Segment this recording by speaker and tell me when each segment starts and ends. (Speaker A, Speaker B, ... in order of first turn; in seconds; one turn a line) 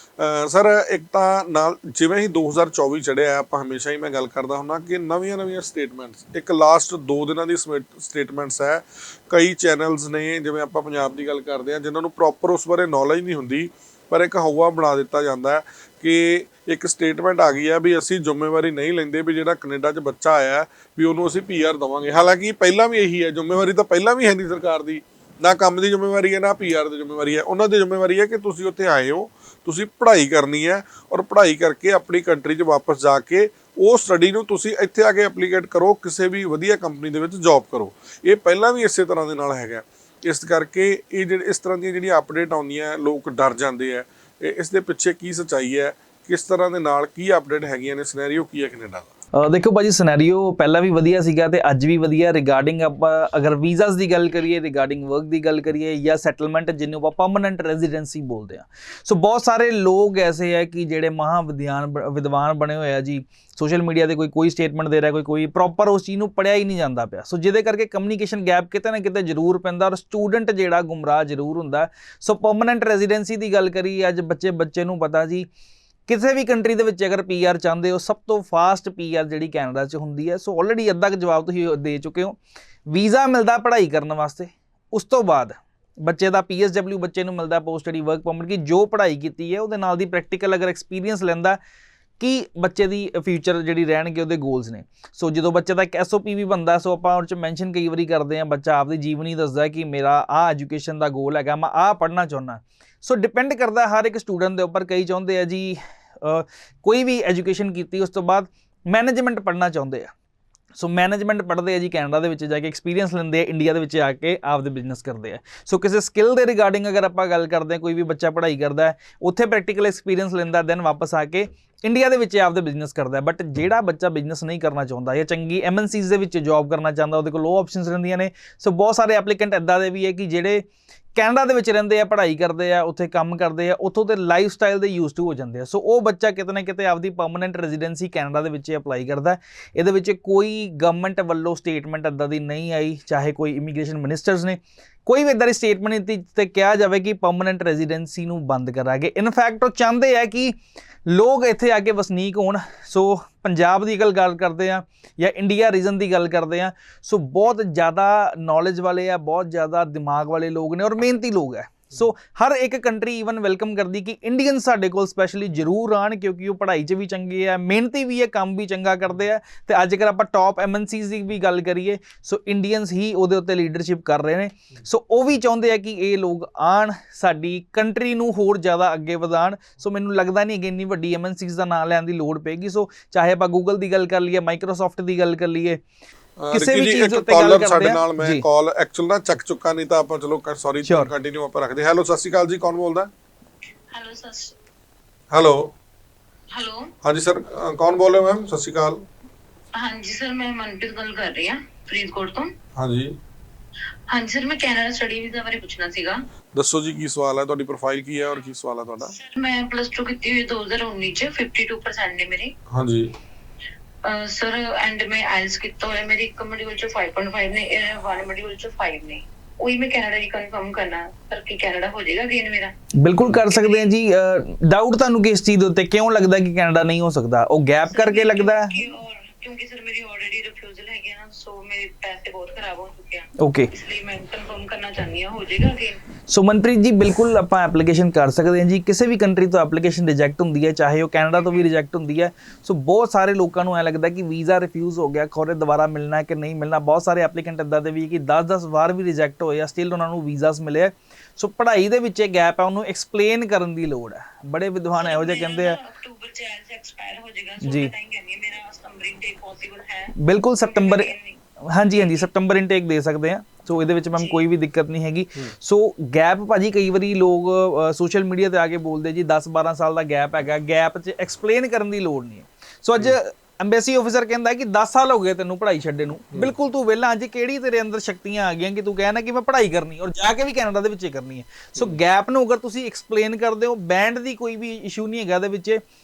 Speaker A: 0.2-49.1
Speaker B: 49.4-75.5
Speaker B: 76.1-82.4
Speaker B: 82.9-91.6
Speaker B: 92.2-110.1
Speaker B: 110.8-150.6
Speaker B: 151.1-185.8
Speaker A: 186.4-193.1
Speaker B: 186.5-188.4
Speaker B: 190.8-191.1
Speaker C: 193.9-194.6
Speaker A: 195.3-195.7
Speaker C: 196.5-196.9
Speaker A: 197.0-199.1
Speaker C: 199.8-202.5
Speaker A: 202.8-203.2
Speaker C: 204.1-206.2
Speaker A: 206.5-209.2
Speaker C: 209.1-212.5
Speaker A: 212.7-213.1
Speaker C: 214.0-222.7
Speaker B: 223.0-228.7
Speaker C: 223.5-223.9
Speaker C: 227.9-236.0
Speaker B: 233.4-233.7
Speaker B: 236.3-255.8
Speaker C: 254.9-261.4
Speaker B: 257.6-257.9
Speaker B: 260.1-261.1
Speaker B: 261.7-285.8
Speaker C: 261.9-262.2
Speaker C: 264.2-264.4